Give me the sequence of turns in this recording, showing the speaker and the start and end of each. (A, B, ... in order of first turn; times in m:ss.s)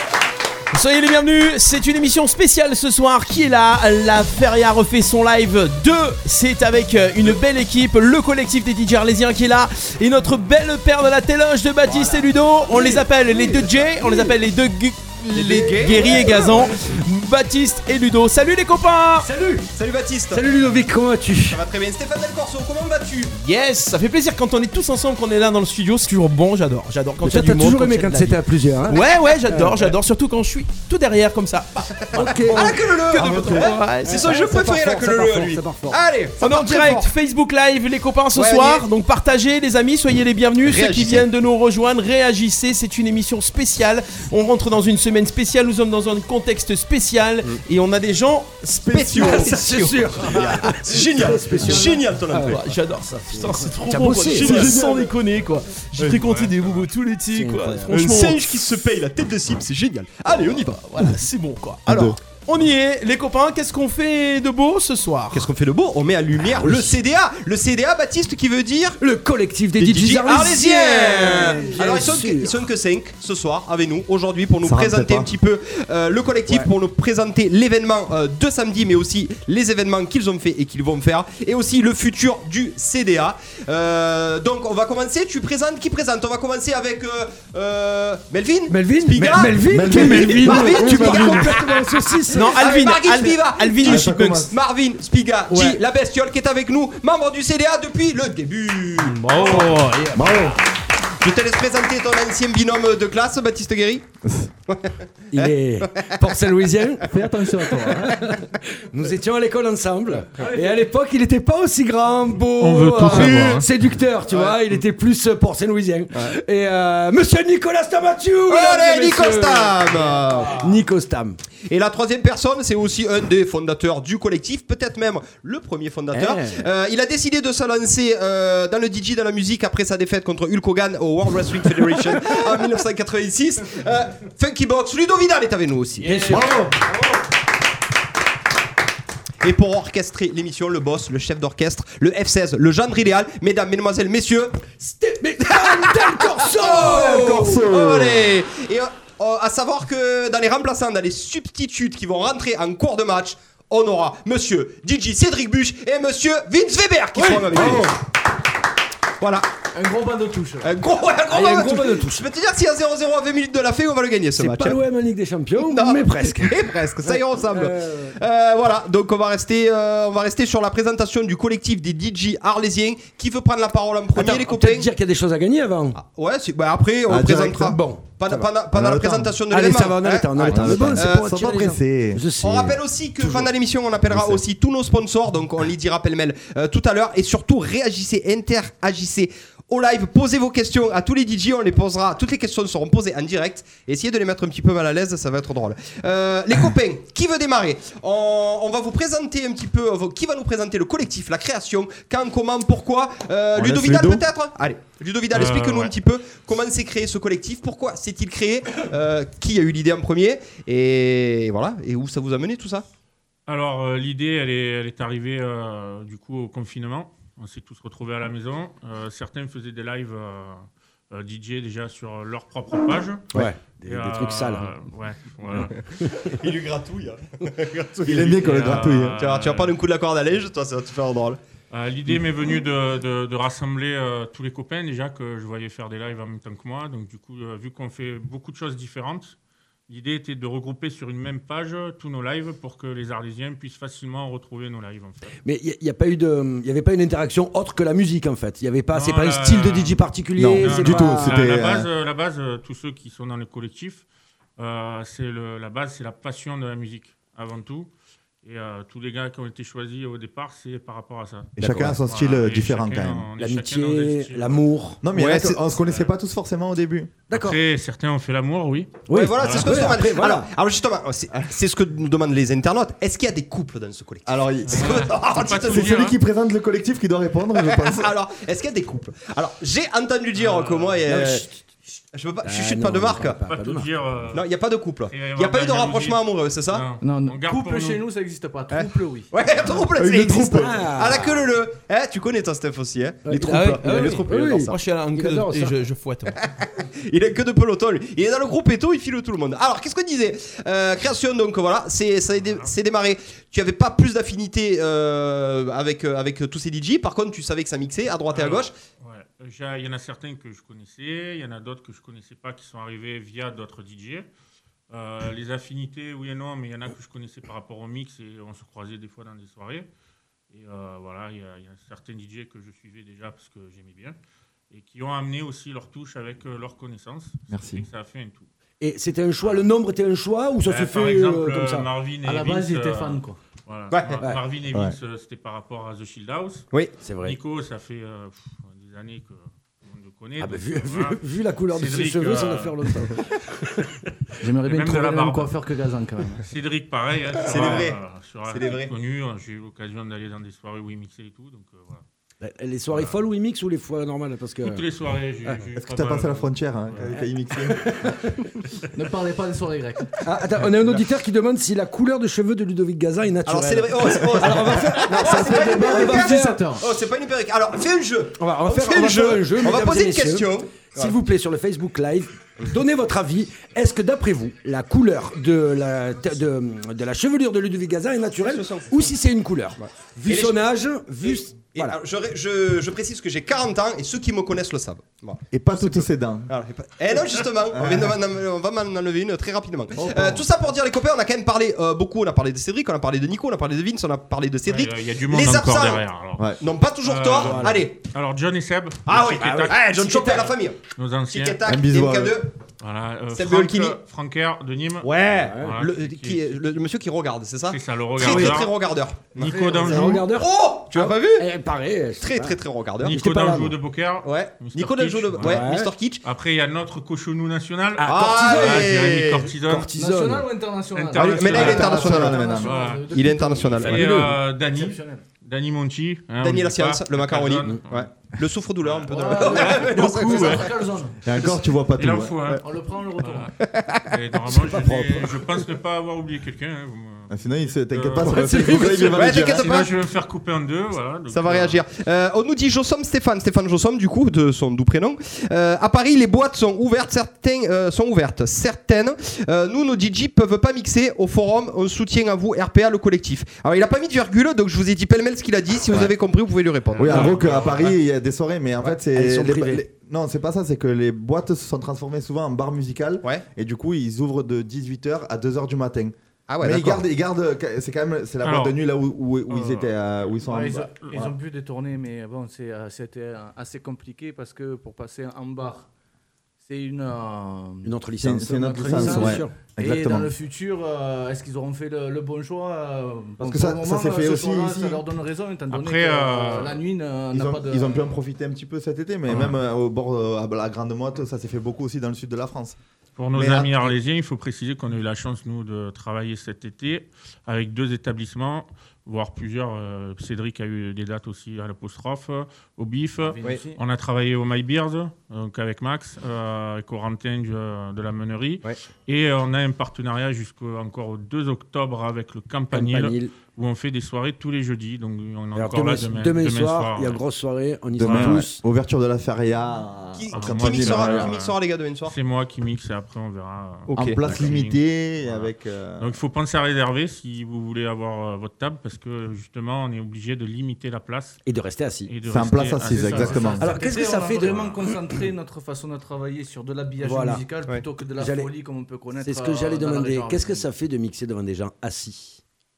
0:00.7-0:19.3 A
0:11.8-0:14.4 B
0:15.3-0:16.3 C
0:15.9-0:16.7 B
0:19.2-0:19.7 B
0:19.7-0:20.4 C
0:20.3-0:21.6 B
0:21.4-0:23.3 C
0:23.3-0:34.2 A
0:27.2-0:30.0 B
0:32.0-0:37.1 C
0:32.1-0:36.0 B
0:36.4-0:51.7 A
0:38.3-0:38.8 C
0:40.6-0:41.3 C
0:48.8-0:55.2 B
0:48.9-0:49.6 C
0:50.2-0:52.6 C
0:52.4-0:58.4 A
0:56.1-0:56.9 D
0:57.3-0:58.0 B
0:57.9-1:00.8 C
1:00.6-1:05.5 A
1:01.9-1:02.1 B
1:05.3-1:09.0 C
1:06.5-1:07.0 B
1:09.0-1:12.5 B
1:09.8-1:39.8 C
1:14.6-1:15.3 E
1:28.7-1:32.6 B
1:29.7-1:31.5 E
1:32.3-1:34.5 A
1:33.8-1:34.5 E
1:35.5-1:35.8 B
1:39.1-1:40.6 B
1:40.1-1:40.6 E
1:41.2-1:44.1 C
1:44.2-1:44.5 E
1:44.7-1:46.2 C
1:45.3-2:01.4 B
1:47.0-1:48.4 F
1:52.6-1:53.7 D
1:54.3-1:54.6 C
1:58.5-2:00.8 C
2:01.7-2:16.5 C
2:06.1-2:06.7 B
2:16.0-2:16.8 B
2:19.4-2:24.7 C
2:24.7-2:27.9 B
2:25.5-2:37.9 C
2:26.9-2:28.3 E
2:37.2-2:37.9 B
2:39.2-2:39.5 C
2:39.7-2:40.7 F
2:40.6-2:44.8 C
2:41.3-2:42.3 B
2:44.4-2:48.1 B
2:45.6-2:54.9 C
2:54.1-2:56.0 B
2:55.9-3:01.4 C
2:57.1-2:57.7 E
2:57.3-2:58.5 B
2:58.7-2:59.4 E
2:59.5-3:03.5 B
3:00.4-3:02.2 E
3:02.4-3:32.8 C
3:04.1-3:04.4 B
3:23.5-3:24.2 E
3:25.3-3:25.9 D
3:33.5-3:45.8 D
3:43.3-3:44.8 B
3:45.6-3:46.1 B
3:46.2-3:48.5 C
3:48.0-3:49.2 E
3:48.4-3:49.7 D
3:49.2-3:51.4 C
3:51.7-3:59.4 D
3:59.9-4:05.3 D
4:05.4-4:11.4 B
4:08.9-4:10.0 D
4:10.4-4:11.9 E
4:10.6-4:14.0 D
4:14.6-4:17.9 D
4:18.4-4:24.6 D
4:21.6-4:23.3 E
4:23.4-4:25.0 B
4:25.0-4:27.1 E
4:25.1-4:25.6 C
4:27.3-4:27.6 B
4:27.3-4:29.9 D
4:29.1-4:30.5 B
4:29.1-4:36.0 C
4:34.2-4:38.1 E
4:34.7-4:36.2 D
4:37.7-4:41.5 C
4:40.3-4:41.0 D
4:41.1-4:41.4 B
4:42.1-4:43.4 C
4:42.4-4:43.9 B
4:43.4-4:44.4 D
4:44.3-4:46.8 C
4:45.1-4:48.0 D
4:47.0-4:49.3 F
4:48.7-4:54.8 C
4:50.0-4:50.7 E
4:50.0-4:51.5 B
4:53.2-4:55.8 B
4:53.3-4:56.4 A
4:56.4-5:08.7 C
5:02.4-5:02.7 D
5:08.3-5:14.3 D
5:14.9-5:19.9 D
5:20.5-5:24.2 D
5:24.7-5:28.5 D
5:27.5-5:27.8 E
5:28.8-5:31.9 B
5:29.4-5:29.6 D
5:30.6-5:36.7 D
5:32.2-5:33.4 F
5:33.9-5:34.2 C
5:37.0-5:37.4 B
5:37.2-5:43.2 D
5:40.4-5:43.8 B
5:44.4-5:46.4 F
5:44.6-5:45.5 D
5:46.4-5:52.0 D
5:47.4-5:48.9 C
5:52.4-5:54.8 B
5:52.9-5:53.2 D
5:54.6-5:57.1 D
5:55.8-5:58.1 E
5:57.6-5:58.3 B
5:58.9-6:00.2 F
6:00.2-6:06.7 B
6:03.4-6:11.2 C
6:05.3-6:06.8 F
6:08.4-6:22.0 B
6:18.4-6:19.2 C
6:19.8-6:20.6 C
6:21.2-6:36.0 C
6:25.5-6:26.5 E
6:27.7-6:28.2 E
6:30.0-6:30.4 B
6:34.6-6:39.8 D
6:36.6-6:38.0 C
6:37.3-6:37.8 B
6:39.1-6:42.5 C
6:39.4-6:40.6 B
6:40.9-6:41.6 D
6:41.6-6:42.4 E
6:42.8-6:46.6 D
6:43.3-6:44.0 C
6:45.0-6:51.5 C
6:45.3-6:45.7 B
6:47.7-6:48.7 D
6:48.2-6:48.6 B
6:49.3-6:50.3 D
6:49.3-6:52.6 B
6:52.2-6:53.2 C
6:53.0-6:55.6 D
6:53.1-6:53.8 B
6:54.2-6:56.2 C
6:55.4-6:55.9 B
6:56.2-6:59.9 D
6:58.0-6:59.0 B
6:58.0-6:59.5 C
6:59.6-7:00.5 B
7:00.0-7:05.2 F
7:00.9-7:02.1 D
7:01.2-7:04.3 C
7:01.5-7:02.8 E
7:02.6-7:03.1 D
7:03.8-7:08.1 D
7:03.8-7:04.3 B
7:06.4-7:10.7 C
7:08.8-7:10.8 D
7:09.1-7:11.2 F
7:11.2-7:12.6 E
7:11.4-7:12.6 D
7:12.5-7:13.5 F
7:13.2-7:13.6 D
7:13.7-7:14.1 C
7:14.1-7:21.8 D
7:14.5-7:15.4 B
7:17.3-7:19.7 E
7:18.2-7:19.4 B
7:19.1-7:19.9 C
7:21.3-7:37.4 C
7:37.0-7:51.3 E
7:37.0-7:37.3 B
7:37.0-7:38.0 D
7:38.8-7:39.8 B
7:46.5-7:47.0 C
7:48.4-7:48.8 D
7:49.5-7:49.9 D
7:50.5-7:55.9 F
7:56.6-7:57.9 F
7:57.8-7:59.6 B
7:58.2-8:00.3 E
7:58.7-8:08.1 F
8:03.4-8:05.0 E
8:05.7-8:06.8 D
8:07.3-8:12.8 E
8:09.3-8:09.6 D
8:13.2-8:37.2 D
8:13.3-8:13.9 E
8:23.2-8:23.8 F
8:32.7-8:33.3 B
8:35.5-8:38.6 B
8:38.0-8:41.3 E
8:38.0-8:38.4 D
8:40.2-8:42.2 C
8:40.3-8:41.6 D
8:42.1-8:51.4 D
8:43.9-8:44.3 C
8:43.9-8:46.2 E
8:51.5-8:52.1 B
8:52.1-8:53.6 D
8:52.2-8:53.7 E
8:52.9-9:00.6 F
8:53.6-8:54.9 B
8:57.0-8:57.5 B
8:58.2-8:58.5 B
8:59.2-9:02.4 B